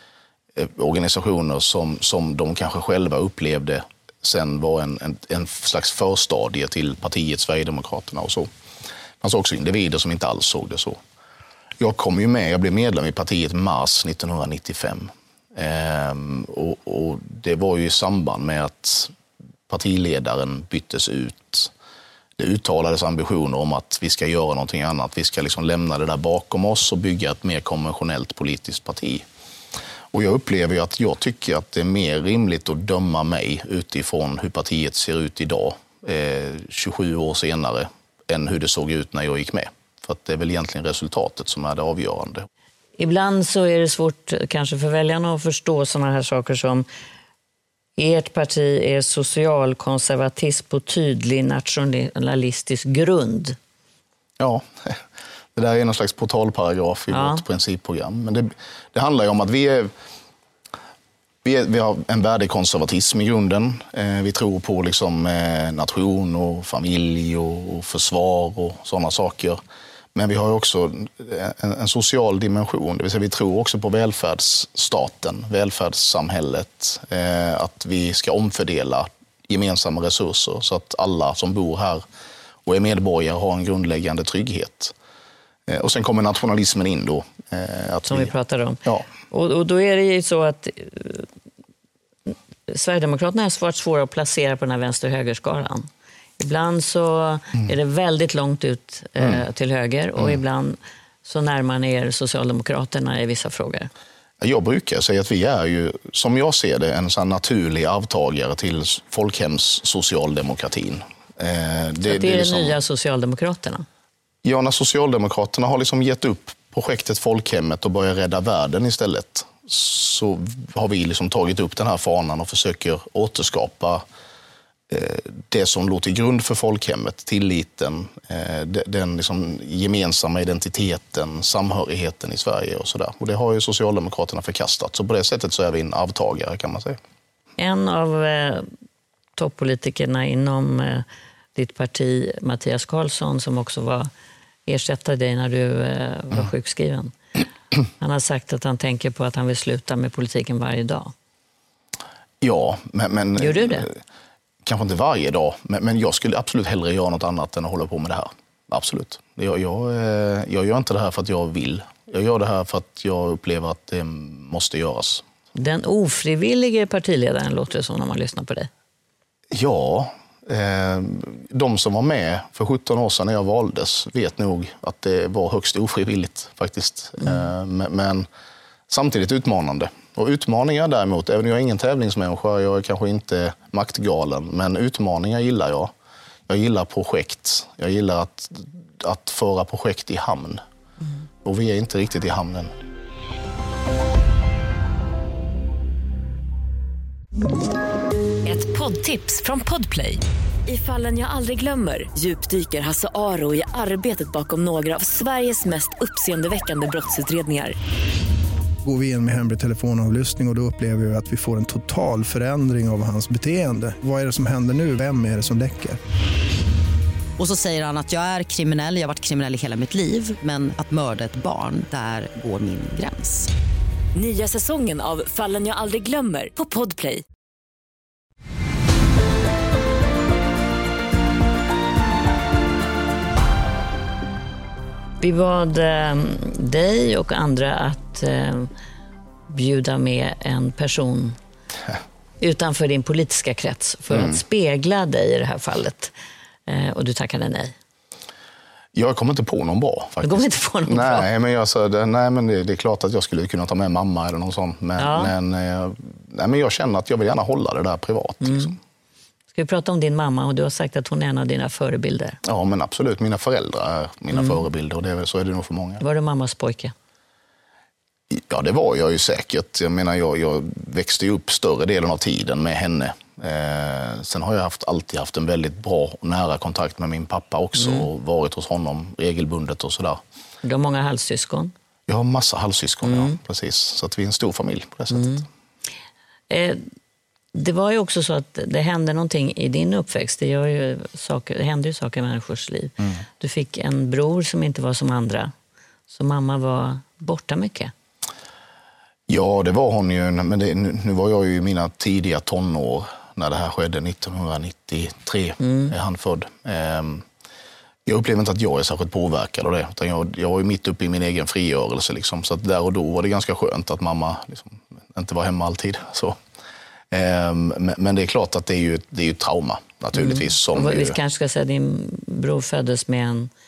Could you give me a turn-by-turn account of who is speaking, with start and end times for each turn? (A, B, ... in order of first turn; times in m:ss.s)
0:00.6-0:08.5 A
0:09.2-0:11.0 A
0:11.8-0:19.1 A
0:19.7-0:21.7 A
0:22.4-0:29.3 A
0:30.1-0:42.5 A
0:43.0-0:46.9 B
0:48.0-0:53.6 B
0:54.4-0:55.0 A
0:55.6-0:59.9 A
0:57.1-0:57.4 B
1:01.4-1:09.6 A
1:10.1-1:22.0 A
1:22.6-1:24.9 A
1:25.7-1:28.3 A
1:28.1-1:31.3 B
1:32.3-1:35.9 B
1:36.4-1:43.9 B
1:44.4-1:52.8 A
1:52.0-1:53.8 B
1:54.4-2:04.0 A
2:04.9-2:17.0 A
2:17.6-2:18.7 B
2:19.4-2:24.1 B
2:24.7-2:27.2 B
2:28.0-2:31.1 B
2:32.4-2:34.0 A
2:33.4-2:33.9 B
2:34.6-2:45.2 A
2:45.6-2:48.7 B
2:49.5-2:58.3 A
2:57.2-2:57.5 B
2:58.9-3:05.9 A
3:06.5-3:10.6 A
3:11.4-3:12.7 A
3:18.4-3:27.8 C
3:28.8-3:36.0 D
3:37.4-3:43.5 E
3:44.2-3:47.2 C
3:55.2-3:58.7 B
3:59.5-4:01.4 B
4:02.4-4:06.1 B
4:04.1-4:04.4 A
4:06.7-4:07.7 B
4:08.9-4:18.8 A
4:10.2-4:11.3 B
4:15.0-4:15.3 B
4:18.4-4:18.7 B
4:19.5-4:22.4 B
4:22.4-4:26.0 A
4:24.3-4:24.6 B
4:26.0-4:26.9 B
4:28.3-4:40.2 A
4:37.8-4:38.1 B
4:40.6-4:41.7 B
4:42.1-4:45.5 A
4:43.0-4:43.4 B
4:45.1-4:45.4 B
4:46.5-4:46.8 B
4:47.5-4:55.5 B
4:56.1-4:57.9 B
4:59.3-5:07.3 A
5:05.6-5:05.9 B
5:08.1-5:16.4 A
5:17.1-5:21.2 A
5:20.2-5:23.5 B